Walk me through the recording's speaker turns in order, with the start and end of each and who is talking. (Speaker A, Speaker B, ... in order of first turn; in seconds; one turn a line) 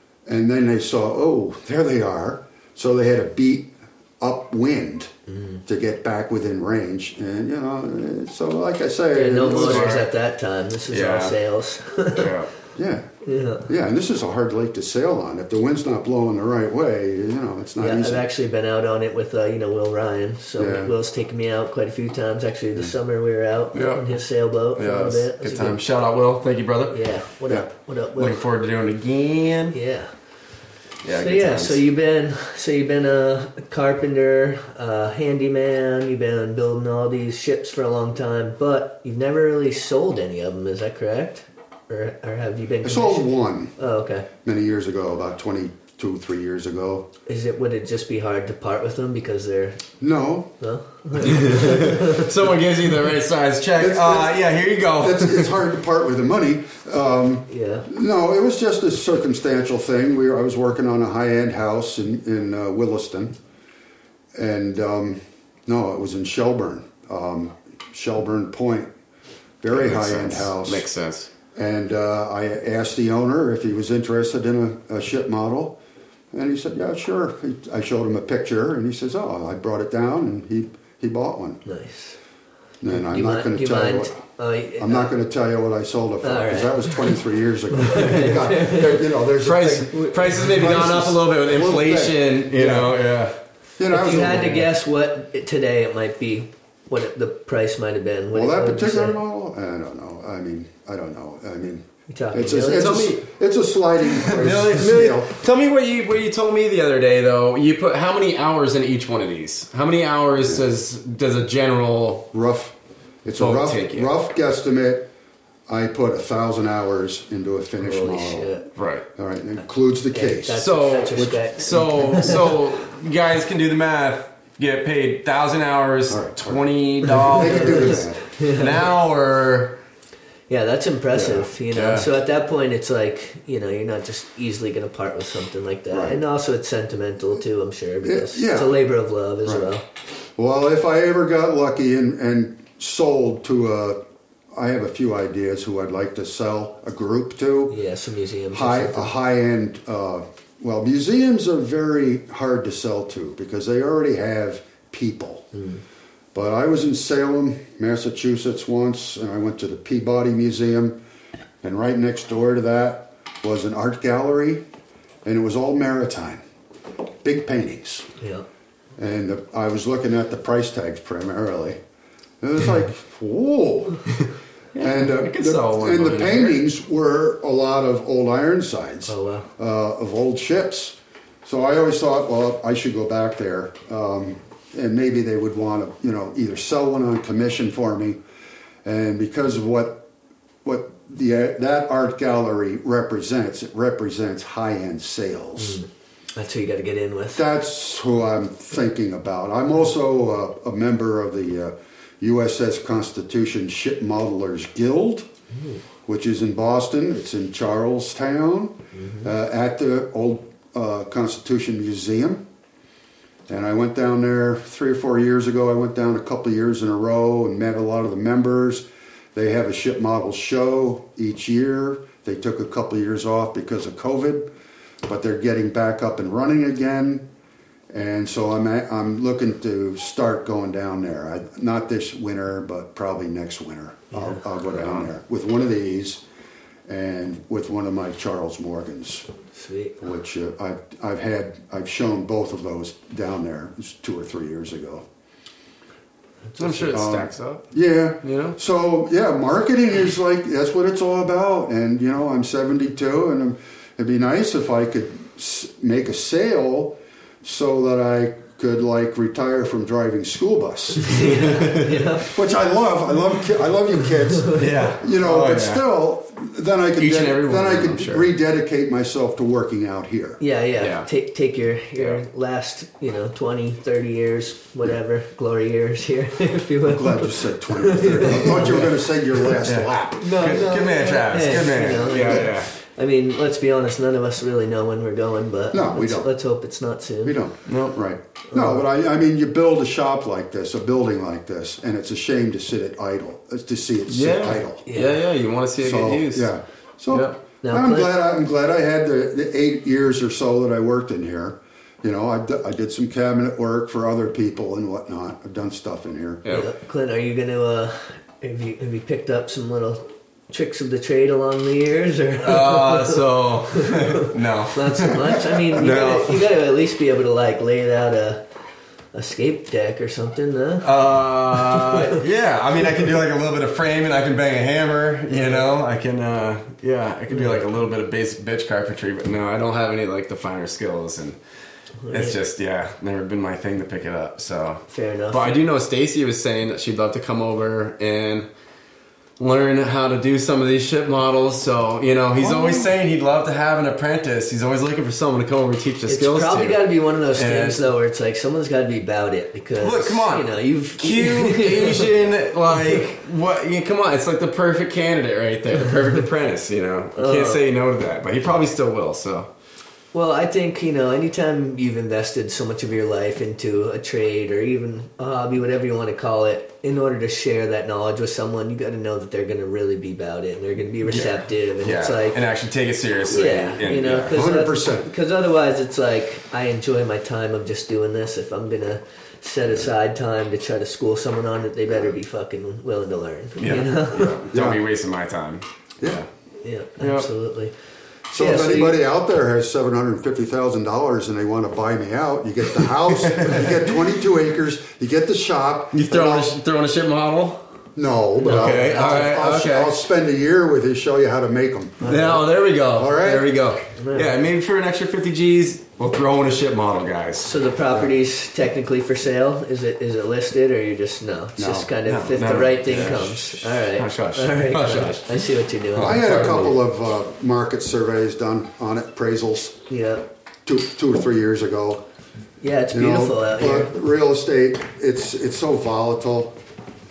Speaker A: 0.2-5.1
Speaker B: 5.3-5.6
Speaker A: 5.7-9.9
Speaker B: 9.1-12.3
Speaker C: 9.5-10.1
Speaker C: 10.9-11.3
Speaker C: 12.1-12.5
Speaker A: 12.8-13.1
Speaker B: 13.2-13.7
Speaker A: 13.7-18.3
Speaker B: 17.8-25.8
Speaker A: 20.6-20.9
Speaker C: 23.7-24.1
Speaker C: 24.7-27.0
Speaker B: 26.9-28.4
Speaker C: 28.1-29.8
Speaker B: 29.7-30.1
Speaker C: 31.0-31.8
Speaker B: 31.1-44.3
Speaker A: 42.8-43.7
Speaker A: 44.4-47.1
Speaker B: 47.3-49.8
Speaker A: 50.0-50.5
Speaker B: 50.6-52.3
Speaker C: 51.2-55.5
Speaker A: 53.8-63.4
Speaker B: 57.5-57.9
Speaker A: 64.3-68.9
Speaker A: 69.6-70.9
Speaker C: 69.7-71.3
Speaker A: 71.5-75.8
Speaker A: 76.3-81.6
Speaker B: 81.6-82.2
Speaker A: 82.8-84.2
Speaker B: 82.9-85.1
Speaker A: 84.8-93.0
Speaker B: 86.2-87.0
Speaker B: 87.8-88.9
Speaker C: 89.4-93.3
Speaker A: 93.8-94.7
Speaker B: 93.9-99.2
Speaker A: 98.3-105.4
Speaker B: 102.1-103.1
Speaker C: 102.7-103.2
Speaker C: 104.1-112.3
Speaker A: 112.3-115.1
Speaker C: 113.4-114.1
Speaker A: 115.7-118.6
Speaker B: 117.8-118.7
Speaker C: 118.8-119.0
Speaker A: 119.2-120.6
Speaker B: 120.1-122.5
Speaker C: 120.5-129.8
Speaker A: 121.2-122.3
Speaker A: 126.1-128.2
Speaker B: 127.2-128.8
Speaker B: 130.5-139.8
Speaker C: 131.1-132.1
Speaker A: 135.9-136.2
Speaker A: 138.0-138.8
Speaker A: 140.4-144.0
Speaker A: 144.5-147.7
Speaker B: 147.7-149.1
Speaker A: 148.5-155.5
Speaker B: 155.5-155.8
Speaker A: 156.3-161.0
Speaker A: 161.6-164.6
Speaker A: 165.2-166.4
Speaker A: 167.2-168.1
Speaker B: 168.2-168.4
Speaker A: 169.0-171.8
Speaker A: 172.4-174.1
Speaker C: 174.7-176.6
Speaker A: 174.8-188.2
Speaker B: 179.1-179.5
Speaker A: 188.8-190.0
Speaker A: 190.6-195.8
Speaker B: 195.6-197.4
Speaker A: 197.3-205.2
Speaker A: 206.1-212.4
Speaker B: 208.9-209.2
Speaker A: 213.5-224.5
Speaker A: 225.0-227.2
Speaker A: 227.9-236.2
Speaker B: 234.1-234.4
Speaker C: 234.7-235.0
Speaker A: 236.9-239.3
Speaker B: 239.5-239.9
Speaker A: 240.0-245.0
Speaker B: 246.5-247.0
Speaker C: 246.6-247.7
Speaker A: 246.9-261.4
Speaker C: 248.2-248.6
Speaker B: 261.0-262.3
Speaker C: 261.3-262.0
Speaker A: 262.2-270.4
Speaker C: 264.5-265.8
Speaker C: 267.0-268.3
Speaker B: 270.4-278.9
Speaker C: 270.8-271.1
Speaker A: 276.8-280.6
Speaker C: 279.6-282.7
Speaker B: 280.2-287.4
Speaker A: 285.7-286.3
Speaker A: 287.2-294.9
Speaker C: 287.7-288.0
Speaker B: 288.5-288.8
Speaker C: 294.1-296.5
Speaker B: 294.9-295.2
Speaker A: 295.8-306.4
Speaker C: 297.1-297.4
Speaker B: 297.6-298.1
Speaker B: 306.5-318.4
Speaker C: 312.4-316.5
Speaker B: 319.1-320.9
Speaker C: 320.8-331.4
Speaker B: 321.5-322.2
Speaker B: 325.3-325.6
Speaker B: 327.3-327.6
Speaker B: 332.0-332.4
Speaker C: 332.1-338.5
Speaker B: 334.9-335.6
Speaker C: 339.4-347.8
Speaker A: 342.4-342.9
Speaker B: 346.1-352.1
Speaker C: 349.8-359.5
Speaker B: 357.2-357.6
Speaker B: 360.1-372.4
Speaker C: 371.0-374.4
Speaker B: 373.3-384.4
Speaker A: 374.3-375.1
Speaker C: 383.6-386.2
Speaker A: 384.5-384.8
Speaker B: 386.6-387.7
Speaker C: 387.0-387.3
Speaker A: 388.3-396.6
Speaker B: 388.4-389.0
Speaker C: 393.2-393.8
Speaker C: 395.9-397.6
Speaker A: 397.9-402.1
Speaker B: 398.4-399.4
Speaker C: 398.4-400.0
Speaker B: 402.0-402.4
Speaker C: 402.0-407.5
Speaker A: 402.9-403.5
Speaker B: 403.9-404.3
Speaker B: 407.4-416.7
Speaker A: 411.6-411.9
Speaker C: 412.0-415.4
Speaker C: 415.9-416.7
Speaker A: 416.0-419.8
Speaker B: 419.9-420.2
Speaker A: 420.6-422.0
Speaker B: 422.6-423.9
Speaker A: 422.9-426.6